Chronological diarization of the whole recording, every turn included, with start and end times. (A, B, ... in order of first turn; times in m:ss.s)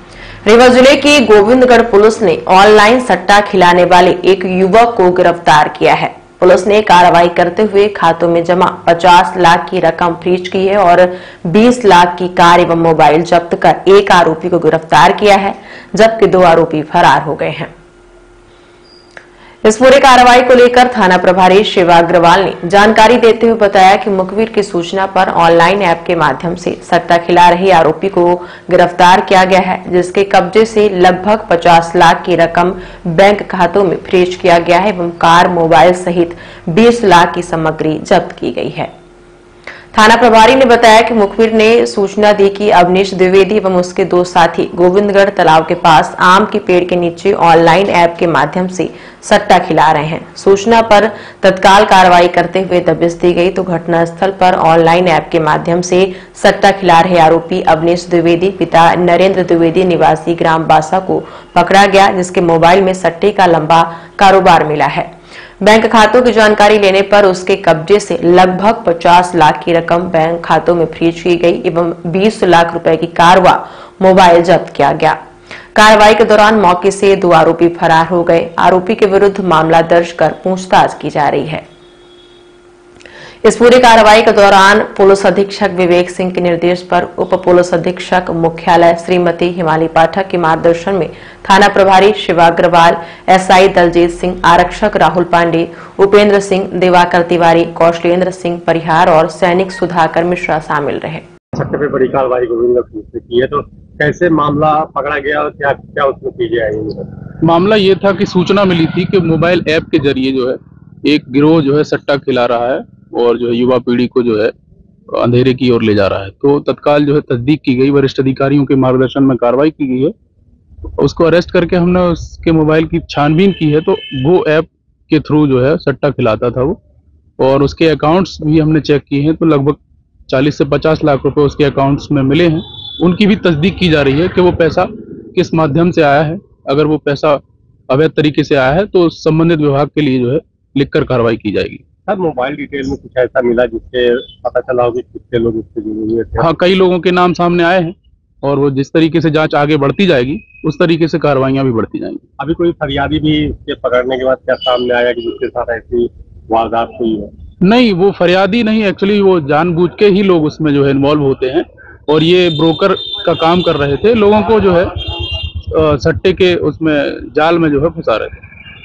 0:00.4-0:17.7 A
0:19.6-0:38.9 A
0:39.9-1:05.1 A
1:05.6-1:15.2 A
1:15.7-1:21.6 A
1:23.4-1:41.2 A
1:41.5-1:47.1 B
1:47.4-1:54.5 C
1:55.1-2:00.1 C
2:01.0-2:06.8 C
2:07.4-2:21.8 C
2:22.1-2:26.5 B
2:26.4-2:32.2 C
2:32.4-2:37.3 B
2:37.6-2:45.0 C
2:45.7-2:48.4 C